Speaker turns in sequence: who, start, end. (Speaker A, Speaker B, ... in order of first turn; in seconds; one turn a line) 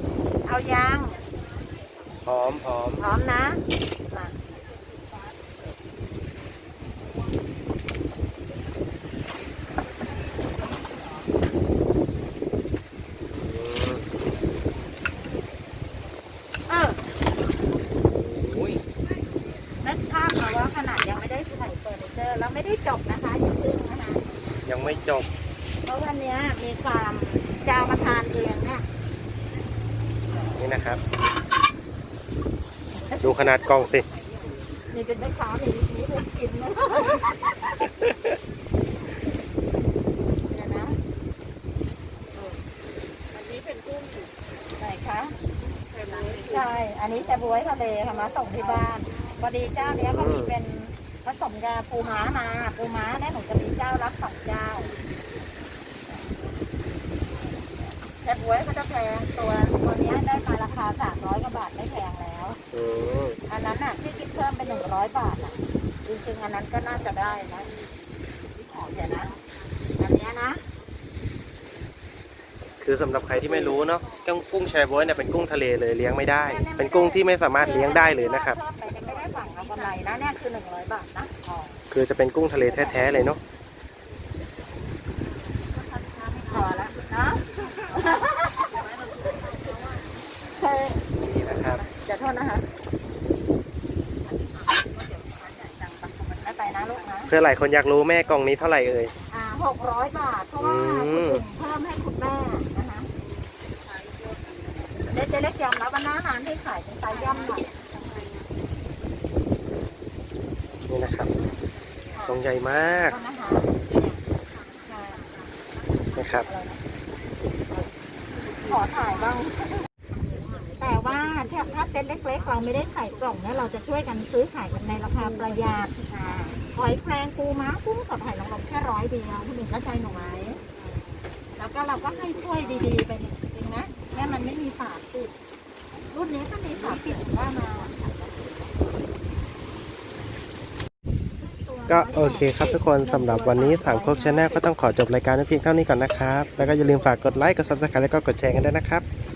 Speaker A: 0.4-1.2
Speaker B: 2.2-3.0
Speaker A: 3.0-4.3
Speaker B: 13.3-14.0
Speaker A: 16.7-17.0
Speaker B: 18.1-18.8
Speaker A: 19.8-24.6
Speaker B: 24.6-25.2
Speaker A: 25.8-28.8
Speaker B: 30.6-31.0
Speaker A: 33.1-33.6
Speaker B: 33.2-34.1
Speaker C: 34.1-34.6
Speaker A: 34.9-37.9
Speaker A: 40.5-41.0
Speaker C: 43.3-44.4
Speaker A: 44.8-45.4
Speaker C: 45.6-46.8
Speaker A: 46.2-54.9
Speaker C: 48.4-48.9
Speaker B: 50.0-50.5
Speaker A: 58.2-62.6
Speaker B: 62.7-63.4
Speaker A: 63.5-67.7
Speaker C: 68.5-69.4
Speaker A: 68.7-69.3
Speaker A: 70.0-70.6
Speaker B: 72.8-78.6
Speaker A: 76.5-81.8
Speaker C: 78.9-80.2
Speaker B: 81.9-83.4
Speaker A: 82.6-83.1
Speaker C: 85.5-86.9
Speaker A: 86.4-91.0
Speaker C: 88.6-89.9
Speaker B: 91.2-91.8
Speaker A: 91.8-92.7
Speaker A: 94.6-97.3
Speaker B: 97.3-99.1
Speaker A: 99.3-103.1
Speaker B: 100.6-101.4
Speaker C: 103.2-104.9
Speaker A: 105.1-107.7
Speaker C: 107.2-108.5
Speaker B: 110.9-111.3
Speaker C: 111.9-112.4
Speaker A: 112.1-112.5
Speaker B: 112.3-113.1
Speaker A: 113.0-114.2
Speaker A: 114.8-115.3
Speaker B: 116.1-116.5
Speaker A: 116.4-116.8
Speaker A: 118.6-119.8
Speaker C: 120.2-121.4
Speaker A: 120.6-125.9
Speaker C: 125.5-126.6
Speaker A: 126.5-130.6
Speaker C: 130.6-131.1
Speaker A: 131.6-135.3
Speaker C: 132.0-132.9
Speaker A: 136.1-137.9
Speaker C: 136.9-138.6
Speaker A: 141.4-144.6
Speaker B: 141.9-149.0
Speaker C: 147.1-147.6